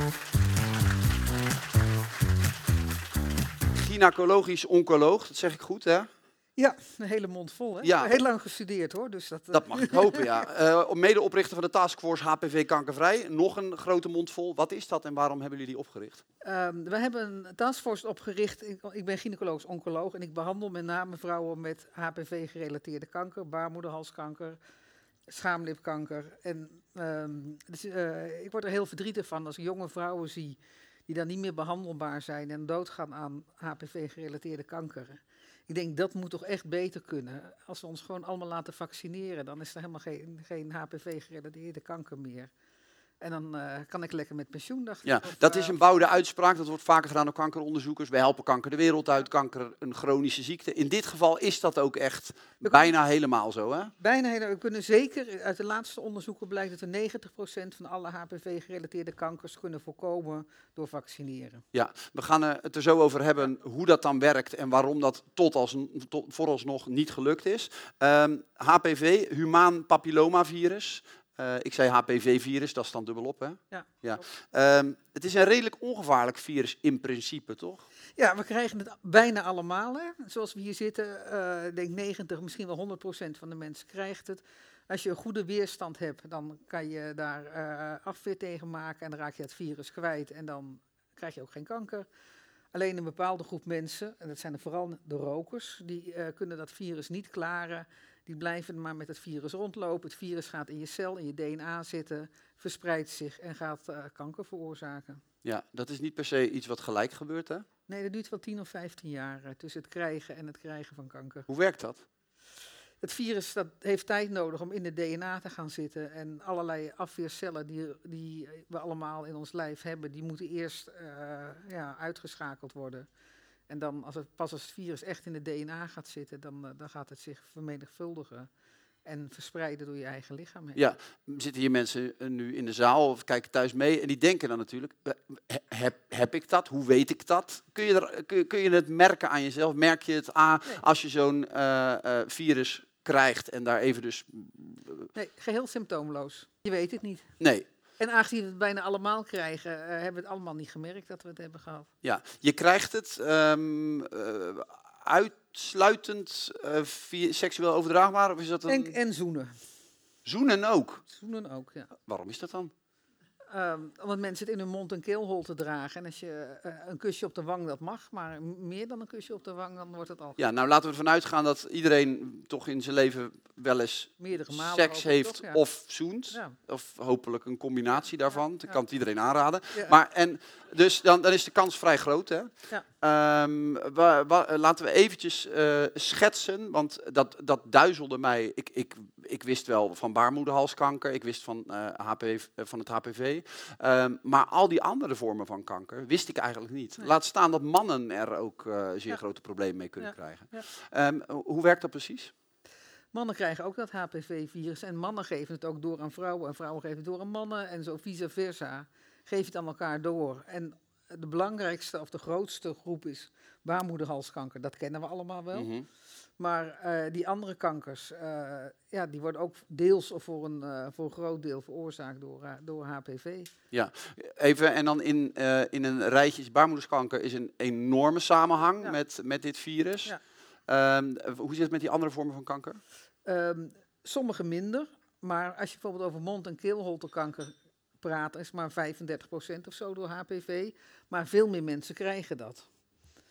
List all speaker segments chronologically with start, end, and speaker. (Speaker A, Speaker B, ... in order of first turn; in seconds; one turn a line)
Speaker A: 3.7-6.1
Speaker B: 6.6-10.5
Speaker A: 7.8-8.2
Speaker A: 9.5-16.2
Speaker B: 16.4-24.6
Speaker B: 25.3-42.5
Speaker B: 43.2-46.1
Speaker A: 45.0-53.9
Speaker B: 52.6-52.9
Speaker B: 54.0-61.6
Speaker A: 61.7-77.8
Speaker B: 78.2-92.1
Speaker B: 92.7-105.2
Speaker A: 105.4-107.7
Speaker B: 107.9-111.5
Speaker A: 111.5-112.0
Speaker B: 113.0-123.1
Speaker B: 123.7-128.5
Speaker B: 129.1-130.8
Speaker A: 130.8-145.1
Speaker B: 145.2-147.3
Speaker A: 147.4-147.7
Speaker B: 148.0-151.9
Speaker A: 152.0-158.9
Speaker B: 158.7-159.6
Speaker A: 160.2-161.0
Speaker B: 161.1-162.0
Speaker A: 162.1-162.7
Speaker B: 163.5-170.4
Speaker A: 170.4-202.3
Speaker B: 174.2-175.7
Speaker B: 176.3-176.6
Speaker B: 200.0-200.7
Speaker B: 203.1-215.7
Speaker A: 215.5-215.9
Speaker B: 216.4-223.5
Speaker A: 223.7-230.2
Speaker A: 230.7-232.8
Speaker B: 233.2-242.7